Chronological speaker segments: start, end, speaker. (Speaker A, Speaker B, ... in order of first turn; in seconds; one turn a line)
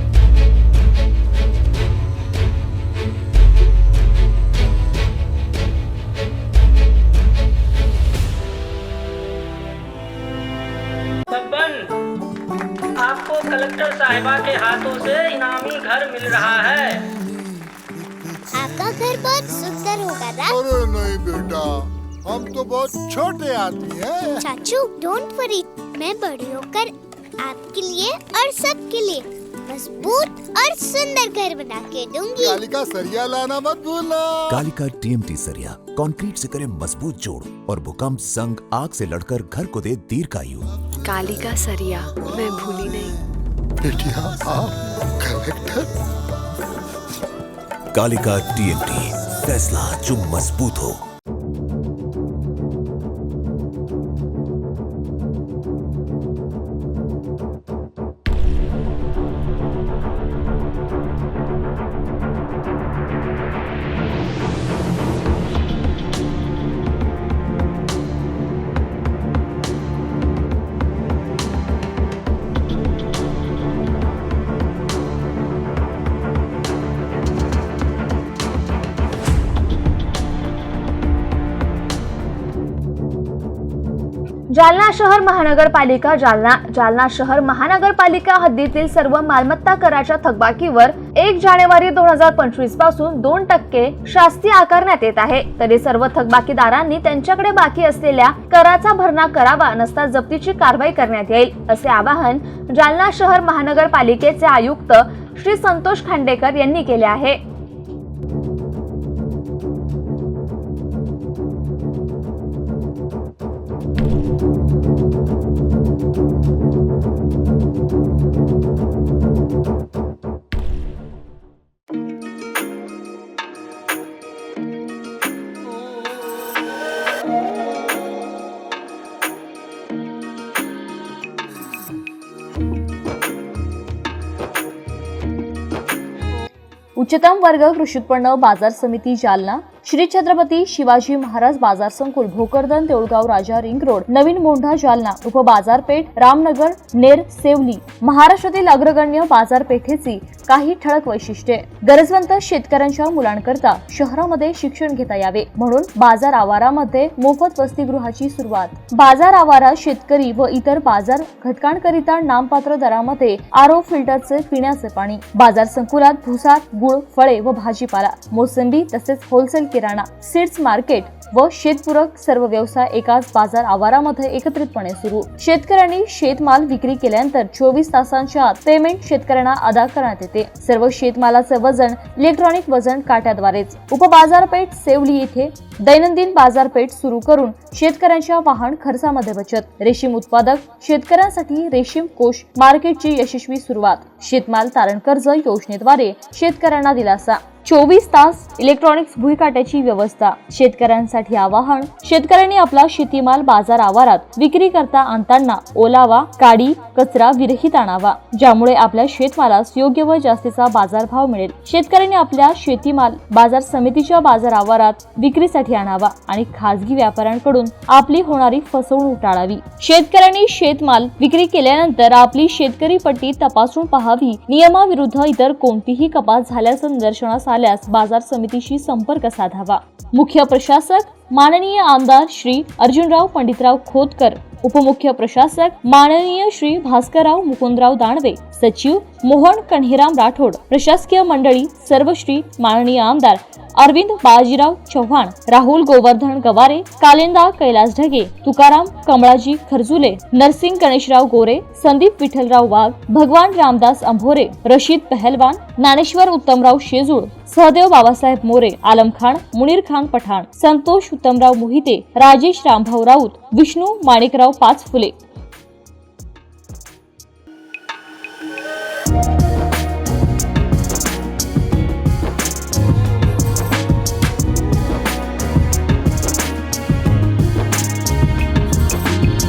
Speaker A: 11.3-11.8
Speaker A: 13.0-17.0
Speaker B: 18.5-20.5
Speaker C: 20.4-24.5
Speaker B: 24.4-32.6
Speaker C: 32.4-34.6
Speaker D: 34.5-40.7
Speaker E: 41.0-43.1
Speaker C: 43.8-45.9
Speaker D: 47.9-51.0
Speaker F: 84.5-107.4
Speaker G: 137.0-265.2